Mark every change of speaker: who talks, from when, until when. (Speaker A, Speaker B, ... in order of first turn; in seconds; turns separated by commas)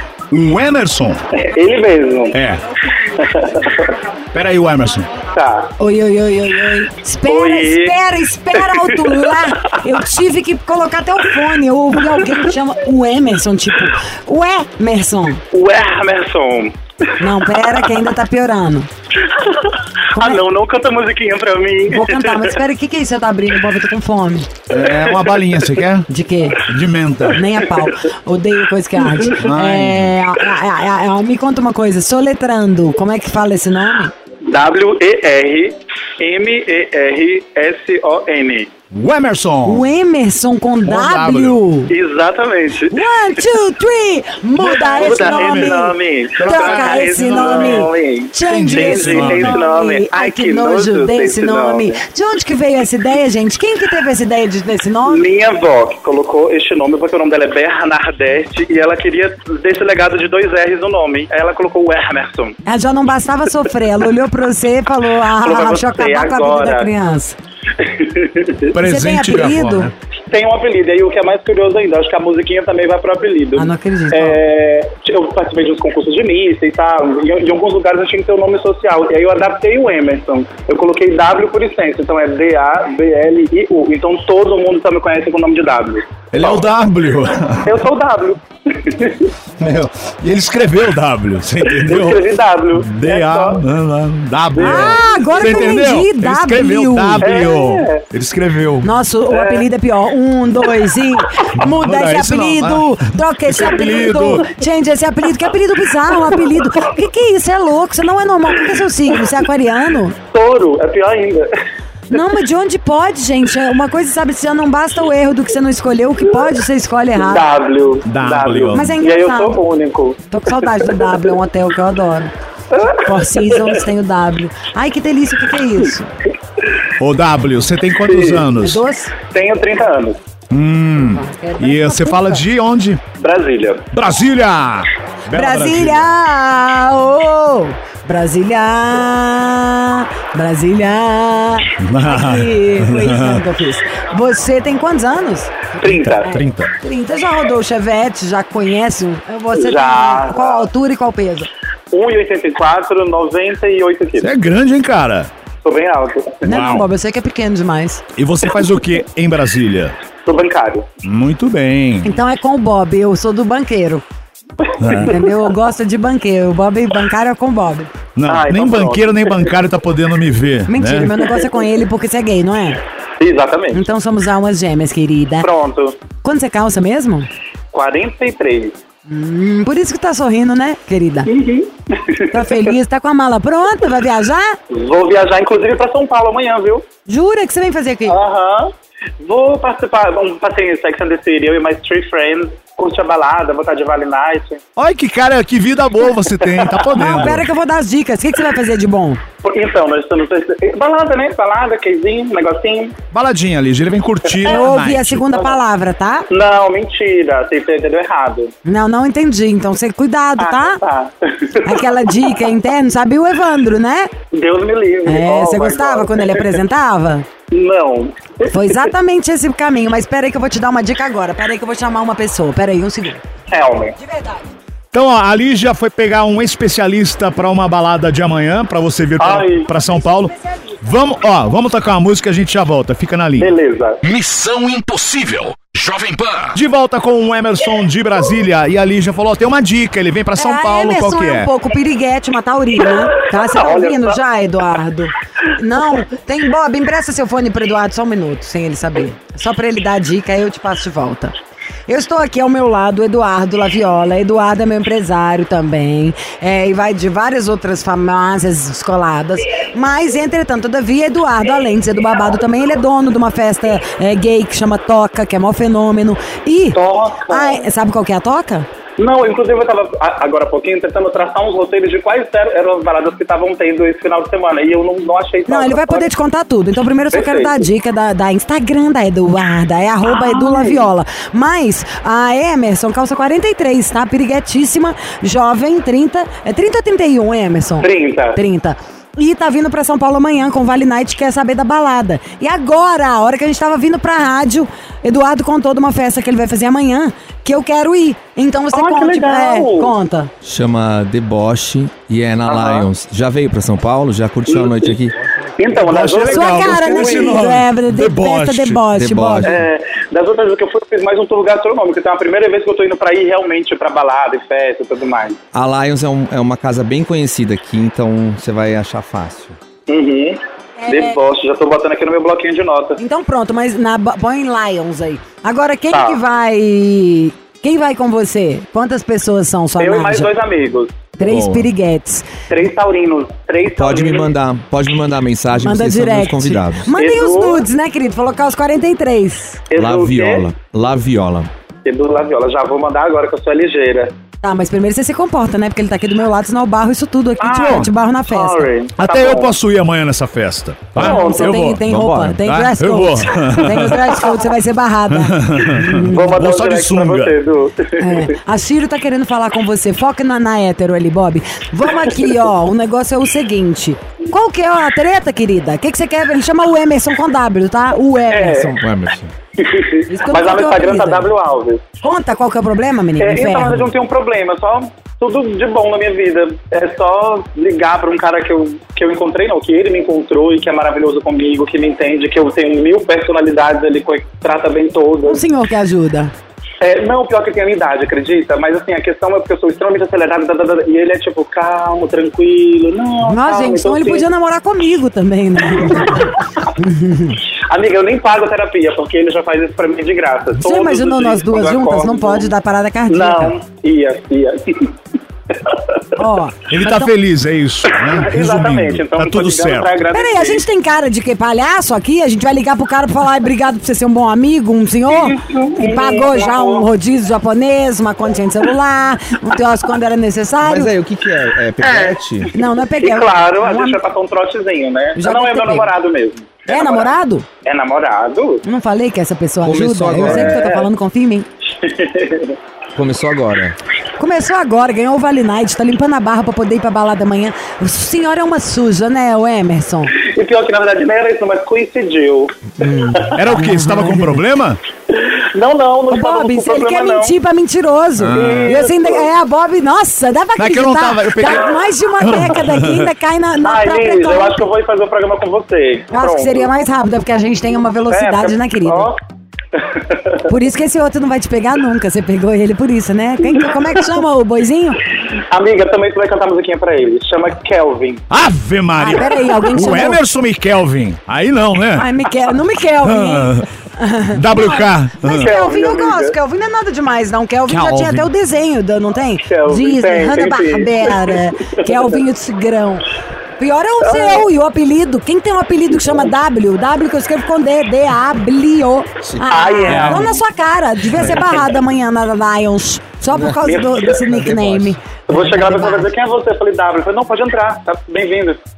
Speaker A: 0.3-1.2, Speaker B: 1.4-2.4, Speaker A: 2.3-2.6, Speaker B: 3.2-4.0, Speaker A: 4.3-5.1, Speaker B: 5.3-5.7, Speaker C: 5.8-15.4, Speaker B: 7.3-8.0, Speaker B: 8.8-9.8, Speaker B: 15.5-16.8, Speaker C: 17.2-18.9, Speaker B: 19.3-22.5, Speaker C: 20.1-20.4, Speaker C: 21.9-24.5, Speaker A: 24.7-26.1, Speaker B: 24.8-25.7, Speaker C: 26.1-26.6, Speaker A: 26.7-27.4, Speaker C: 27.3-34.1, Speaker A: 29.4-30.2, Speaker B: 34.5-38.7, Speaker A: 38.9-39.9, Speaker C: 39.6-41.9, Speaker A: 40.9-41.6, Speaker B: 41.9-43.0, Speaker C: 42.9-55.2, Speaker B: 44.7-52.0, Speaker A: 44.9-49.6, Speaker B: 55.1-62.5, Speaker C: 62.7-67.4, Speaker B: 65.4-66.9, Speaker B: 67.8-68.7, Speaker A: 68.7-69.9, Speaker C: 68.8-69.9, Speaker B: 70.3-86.7, Speaker C: 73.6-74.4, Speaker A: 86.3-87.8, Speaker B: 87.7-89.3, Speaker A: 89.6-98.9, Speaker B: 91.7-93.6, Speaker B: 94.5-95.8, Speaker C: 94.6-97.3, Speaker B: 97.2-98.0, Speaker C: 98.8-110.2, Speaker B: 99.3-99.7, Speaker A: 101.5-104.5, Speaker B: 110.3-111.5, Speaker C: 112.1-117.5, Speaker B: 117.3-120.2, Speaker A: 118.0-119.0, Speaker C: 118.7-119.6, Speaker C: 120.3-122.3, Speaker B: 122.7-123.7, Speaker C: 123.0-126.1, Speaker A: 127.0-128.8, Speaker B: 128.1-128.5, Speaker C: 128.6-129.1, Speaker B: 129.3-130.2, Speaker A: 130.5-133.0, Speaker C: 131.0-132.4, Speaker B: 133.2-133.8, Speaker A: 133.9-136.1, Speaker C: 135.3-151.5, Speaker A: 141.8-143.4, Speaker B: 145.8-146.3, Speaker A: 145.9-146.7, Speaker B: 149.6-150.7, Speaker B: 151.9-154.3, Speaker A: 154.2-155.3, Speaker B: 155.6-156.4, Speaker C: 156.4-158.0, Speaker A: 156.5-156.9, Speaker A: 158.2-159.9, Speaker B: 160.2-160.9, Speaker A: 161.0-162.2, Speaker C: 162.0-164.0, Speaker A: 164.8-165.2, Speaker C: 165.0-167.9, Speaker A: 168.2-171.1, Speaker B: 168.3-169.5, Speaker C: 170.7-172.8, Speaker B: 173.2-173.8, Speaker C: 173.7-175.5, Speaker B: 175.4-176.0, Speaker C: 176.2-177.3, Speaker B: 177.7-178.8, Speaker C: 179.1-181.3, Speaker B: 181.3-182.5, Speaker C: 182.3-184.6, Speaker B: 184.7-186.8, Speaker C: 187.1-188.2, Speaker B: 188.1-194.6, Speaker A: 194.8-197.5, Speaker B: 196.7-196.9, Speaker C: 196.9-199.2, Speaker B: 199.4-202.9, Speaker A: 203.1-205.4, Speaker B: 204.3-204.6, Speaker C: 204.5-206.3, Speaker B: 206.3-208.5, Speaker C: 208.7-210.8, Speaker B: 210.4-211.8, Speaker C: 211.6-214.1, Speaker B: 214.3-216.4, Speaker C: 215.1-217.3, Speaker B: 217.5-218.9, Speaker C: 218.5-223.2, Speaker B: 223.5-224.0, Speaker C: 224.0-224.5, Speaker A: 224.9-233.5, Speaker B: 229.2-229.7, Speaker C: 229.8-230.7, Speaker B: 233.4-234.0, Speaker D: 234.0-236.6, Speaker A: 236.6-241.5, Speaker C: 240.4-251.3, Speaker B: 242.8-244.2, Speaker C: 251.9-268.7, Speaker B: 266.7-267.6, Speaker B: 269.0-276.1, Speaker C: 275.5-300.3, Speaker B: 277.1-277.6, Speaker B: 280.1-280.9, Speaker B: 287.8-288.4, Speaker B: 298.7-299.9, Speaker E: 300.4-305.1, Speaker B: 302.5-302.9, Speaker B: 304.5-305.0, Speaker B: 305.6-307.4, Speaker A: 305.8-308.9, Speaker C: 306.2-309.5, Speaker E: 309.0-309.6, Speaker B: 309.4-315.4, Speaker E: 315.5-319.6, Speaker B: 319.9-323.0, Speaker C: 320.8-321.1, Speaker C: 323.0-330.3, Speaker B: 325.9-326.2, Speaker B: 329.8-331.1, Speaker C: 331.2-332.3, Speaker E: 331.2-331.7, Speaker B: 332.5-334.3, Speaker E: 333.7-336.9, Speaker C: 335.6-339.6, Speaker B: 336.9-337.6, Speaker B: 339.7-340.5, Speaker E: 339.8-341.5, Speaker B: 341.9-344.1, Speaker C: 344.4-348.7, Speaker B: 347.4-349.5, Speaker A: 347.6-347.9, Speaker A: 349.0-351.9, Speaker C: 351.0-356.2, Speaker B: 351.0-351.6, Speaker E: 351.8-352.4, Speaker A: 352.4-354.1, Speaker A: 355.1-357.4, Speaker B: 356.1-358.3, Speaker C: 358.0-368.8, Speaker B: 368.3-368.8, Speaker E: 368.8-369.3, Speaker B: 369.6-371.8, Speaker C: 370.1-371.3, Speaker C: 372.0-373.9, Speaker B: 373.2-385.4, Speaker C: 385.3-386.3, Speaker B: 386.8-394.3, Speaker C: 393.2-397.4, Speaker B: 395.7-396.7, Speaker B: 397.7-402.5, Speaker C: 400.6-403.6, Speaker B: 403.1-404.9, Speaker B: 405.5-406.0, Speaker C: 406.2-407.1, Speaker A: 406.7-409.9, Speaker B: 407.9-410.6, Speaker C: 410.1-420.9, Speaker B: 415.1-416.9, Speaker E: 420.6-422.5, Speaker B: 421.8-427.1, Speaker C: 422.6-424.0, Speaker C: 425.2-425.9, Speaker C: 426.7-427.4, Speaker B: 427.6-428.6, Speaker C: 428.6-431.5, Speaker E: 429.6-430.7, Speaker B: 430.2-430.9, Speaker B: 431.8-432.6, Speaker E: 432.9-433.8, Speaker C: 434.2-440.1, Speaker B: 440.2-442.5, Speaker C: 442.8-444.4, Speaker A: 443.3-444.8, Speaker B: 445.1-447.4, Speaker C: 446.1-454.7, Speaker A: 448.2-448.7, Speaker B: 448.4-449.3, Speaker A: 450.6-453.1, Speaker B: 453.6-456.7, Speaker C: 456.1-459.1, Speaker B: 458.1-459.2, Speaker B: 459.8-460.5, Speaker C: 460.5-465.0, Speaker B: 465.5-468.2, Speaker A: 468.3-472.1, Speaker C: 469.0-470.2, Speaker C: 471.9-483.1, Speaker A: 473.0-473.7, Speaker A: 474.3-475.5, Speaker B: 475.2-476.4, Speaker A: 477.7-478.3, Speaker B: 479.5-482.1, Speaker C: 483.6-496.1, Speaker B: 484.1-484.4, Speaker E: 489.3-490.2, Speaker B: 489.5-490.3, Speaker E: 493.4-493.6, Speaker B: 493.7-494.4, Speaker E: 494.3-494.9, Speaker B: 495.3-498.6